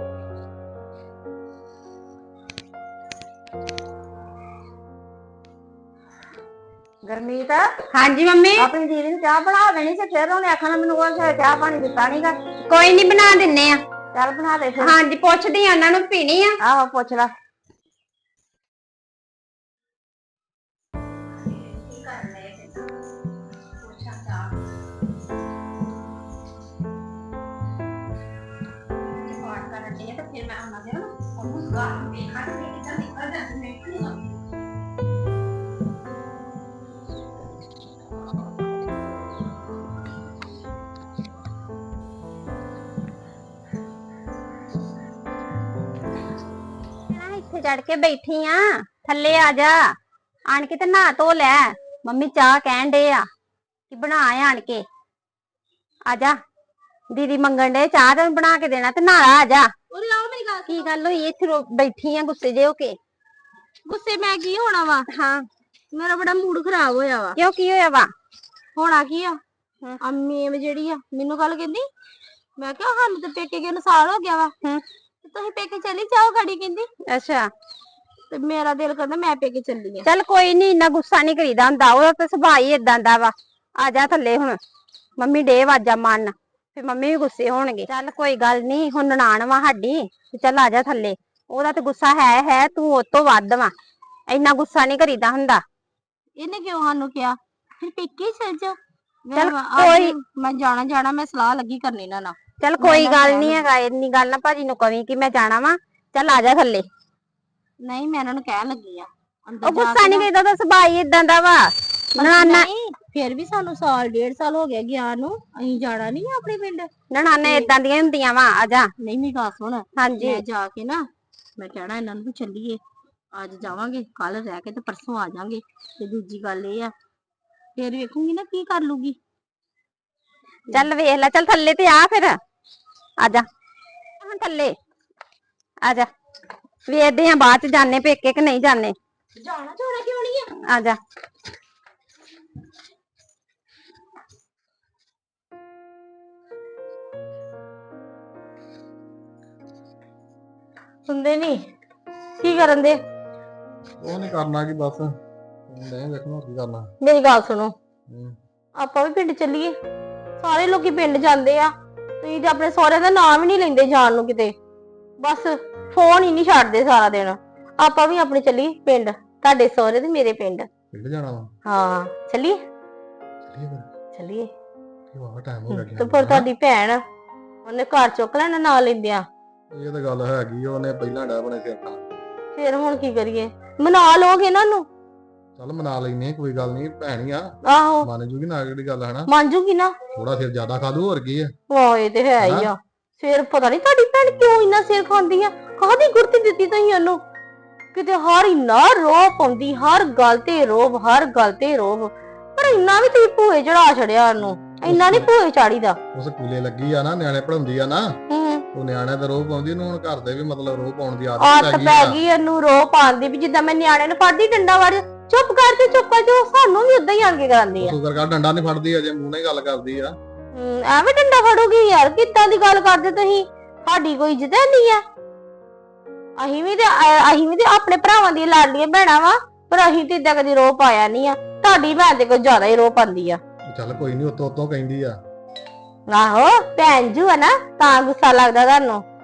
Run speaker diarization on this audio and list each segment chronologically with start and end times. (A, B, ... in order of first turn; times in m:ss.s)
0:07.0-0:07.7 A
0:07.9-0:08.7 B
0:08.6-0:12.2 A
0:11.9-0:13.8 B
0:14.1-0:15.0 A
0:14.8-0:16.6 B
0:16.6-0:17.3 A
0:21.4-0:22.8 B
0:23.8-0:24.5 B
0:29.2-0:34.3 B
0:47.1-0:49.8 B
0:50.5-0:53.2 B
0:53.9-0:54.8 B
0:56.1-0:56.4 B
0:57.1-0:59.7 B
0:59.9-1:00.9 C
1:00.7-1:03.0 B
1:03.8-1:05.1 C
1:05.1-1:05.4 B
1:05.9-1:07.4 C
1:07.4-1:08.1 B
1:08.7-1:09.4 C
1:10.0-1:11.8 C
1:12.6-1:14.5 C
1:15.2-1:16.9 C
1:17.1-1:17.5 B
1:18.3-1:20.1 C
1:20.0-1:24.6 B
1:25.2-1:33.7 B
1:34.3-1:35.6 B
1:36.4-1:43.6 C
1:39.4-1:40.1 B
1:42.6-1:46.8 B
1:47.8-1:50.3 C
1:49.6-1:52.7 B
1:52.1-1:56.9 C
1:57.1-1:58.9 B
1:57.4-1:57.7 C
1:59.0-2:01.0 C
2:00.0-2:00.4 B
2:01.6-2:02.8 C
2:03.3-2:06.9 C
2:07.8-2:09.2 C
2:10.7-2:12.4 B
2:13.2-2:13.4 B
2:14.2-2:14.7 B
2:16.9-2:18.9 B
2:19.4-2:20.5 C
2:20.7-2:21.0 B
2:31.1-2:31.7 C
2:32.4-2:33.0 C
2:34.0-2:35.1 D
2:35.7-2:36.9 D
2:37.0-2:37.7 C
2:38.1-2:38.4 D
2:38.8-2:39.8 C
2:40.4-2:44.6 C
2:45.2-2:50.7 C
2:50.9-2:51.5 D
2:51.6-2:52.6 C
2:53.4-2:53.9 D
2:54.1-2:54.5 C
2:55.1-2:56.5 D
2:55.7-2:57.0 C
2:57.6-2:59.3 C
2:59.7-3:02.0 D
3:02.5-3:04.9 C
3:05.6-3:09.3 D
3:07.6-3:08.1 C
3:09.3-3:10.0 C
3:10.1-3:11.5 D
3:11.7-3:17.2 C
3:12.4-3:12.7 D
3:17.9-3:26.0 C
3:24.8-3:25.3 D
3:26.1-3:28.1 D
3:28.3-3:28.6 C
3:28.7-3:32.2 D
3:31.4-3:38.0 C
3:37.8-3:40.2 D
3:40.5-3:45.0 C
3:46.4-3:53.4 C
3:53.7-3:55.2 D
3:56.1-3:59.0 C